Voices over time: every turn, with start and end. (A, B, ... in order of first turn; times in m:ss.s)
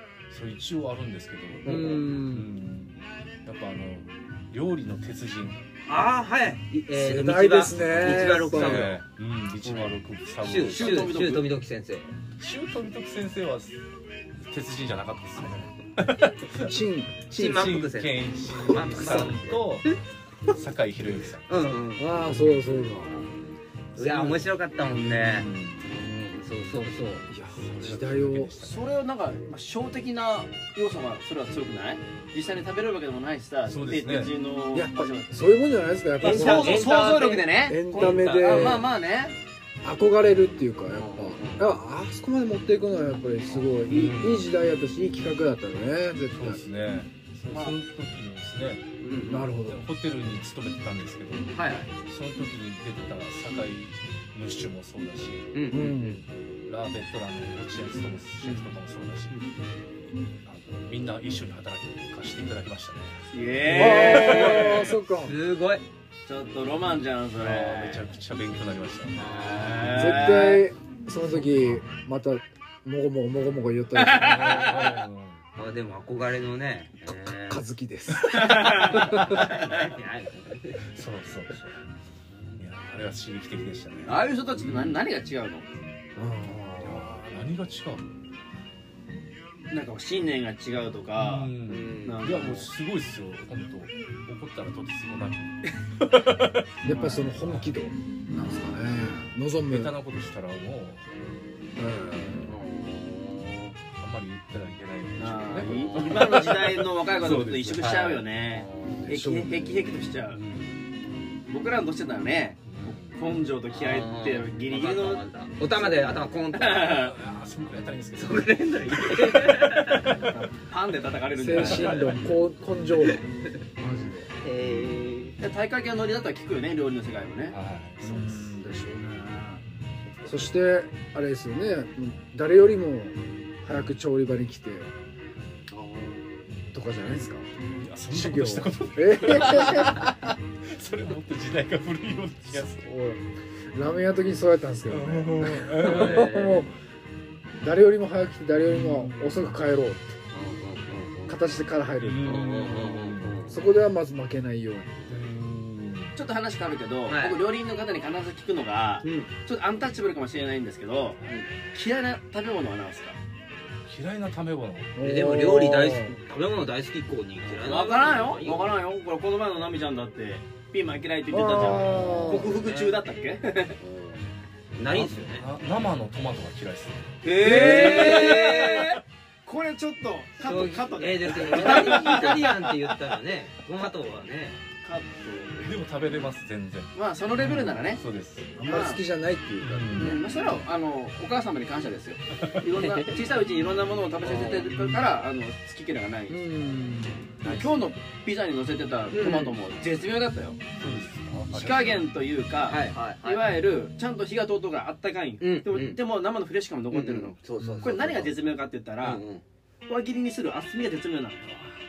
0:00.3-0:05.6 A
0:01.7-0:02.5 B
0:01.7-0:02.0 C
0:05.9-0:09.0 C
0:06.9-0:09.0 B
0:07.8-0:11.2 A
0:09.6-0:12.1 C
0:10.6-0:11.4 D
0:12.4-0:13.8 A
0:14.4-0:16.7 A
0:16.5-0:17.3 B
0:17.3-0:19.9 A
0:17.3-0:19.6 C
0:20.5-0:21.6 A
0:21.5-0:22.2 C
0:22.0-0:23.2 B
0:22.2-0:22.9 A
0:24.0-0:25.9 A
0:24.0-0:27.3 C
0:27.3-0:28.5 B
0:27.4-0:28.9 A
0:28.6-0:35.3 D
0:33.7-0:34.4 A
0:34.7-0:36.9 B
0:36.2-0:38.9 C
0:36.2-0:39.4 D
0:37.5-0:38.9 B
0:39.8-0:46.6 B
0:40.9-0:41.8 C
0:43.8-0:44.6 A
0:46.3-0:55.5 A
0:47.5-0:47.8 D
0:49.0-0:49.5 C
0:49.2-0:49.8 B
0:51.6-0:51.9 C
0:55.5-0:56.2 C
0:55.7-0:56.2 B
0:56.7-0:59.4 A
1:00.4-1:04.9 A
1:03.3-1:05.0 D
1:03.6-1:05.8 C
1:03.7-1:05.4 B
1:06.3-1:08.1 D
1:07.4-1:09.5 A
1:09.1-1:10.4 C
1:09.5-1:10.7 D
1:10.0-1:14.9 B
1:11.2-1:11.8 A
1:14.0-1:15.0 D
1:14.2-1:15.4 A
1:15.6-1:17.6 C
1:17.0-1:19.5 B
1:18.2-1:19.9 D
1:18.9-1:19.8 A
1:19.4-1:20.8 C
1:20.8-1:21.8 A
1:22.6-1:25.0 A
1:24.0-1:25.7 D
1:26.2-1:27.3 B
1:26.8-1:28.1 A
1:29.7-1:31.5 D
1:31.2-1:37.8 A
1:31.7-1:32.5 C
1:32.0-1:32.7 D
1:36.8-1:39.9 B
1:36.9-1:37.3 D
1:38.4-1:39.0 C
1:39.7-1:41.1 A
1:41.8-1:42.6 B
1:42.1-1:42.5 A
1:42.4-1:43.8 C
1:44.0-1:49.2 A
1:45.2-1:50.4 D
1:45.7-1:46.5 C
1:47.8-1:48.2 C
1:49.1-1:49.7 B
1:50.3-1:51.0 A
1:51.5-1:57.2 D
1:52.7-1:53.2 A
1:53.7-1:57.0 C
1:56.9-2:00.4 A
1:58.2-2:00.3 C
2:00.1-2:02.4 D
2:01.4-2:03.3 B
2:03.8-2:04.3 B
2:04.4-2:05.4 C
2:05.4-2:07.6 D
2:07.5-2:08.6 A
2:08.0-2:09.6 B
2:10.3-2:14.9 B
2:15.7-2:16.2 C
2:16.7-2:17.5 B
2:17.8-2:22.9 A
2:18.1-2:20.1 B
2:22.8-2:26.7 B
2:24.9-2:26.4 A
2:25.8-2:26.7 C
2:27.6-2:30.2 B
2:28.6-2:29.4 A
2:30.3-2:31.4 C
2:31.3-2:32.5 B
2:32.0-2:33.4 A
2:32.2-2:33.6 C
2:33.5-2:35.3 B
2:35.1-2:36.2 A
2:36.2-2:43.2 D
2:37.1-2:37.4 C
2:39.0-2:39.3 C
2:43.9-2:45.0 A
2:45.0-2:46.2 B
2:45.0-2:48.7 C
2:47.6-2:53.8 D
2:51.3-2:52.6 B
2:52.1-2:53.0 C
2:53.8-2:54.2 C
2:54.8-2:55.5 C
2:54.9-2:57.7 A
2:57.2-3:02.7 D
2:57.4-2:59.0 C
2:57.4-2:58.0 B
3:00.4-3:04.6 C
3:04.8-3:05.8 D
3:05.6-3:08.5 A
3:07.0-3:08.0 D
3:08.6-3:10.4 B
3:08.6-3:09.0 D
3:09.6-3:10.2 A
3:10.0-3:16.5 D
3:12.8-3:13.2 C
3:16.3-3:17.3 B
3:17.4-3:17.9 A
3:17.4-3:20.6 D
3:19.1-3:19.6 C
3:20.8-3:22.1 A
3:21.5-3:29.2 D
3:22.7-3:23.4 C
3:25.4-3:26.0 C
3:26.9-3:29.4 C
3:27.6-3:27.9 B
3:29.9-3:31.6 D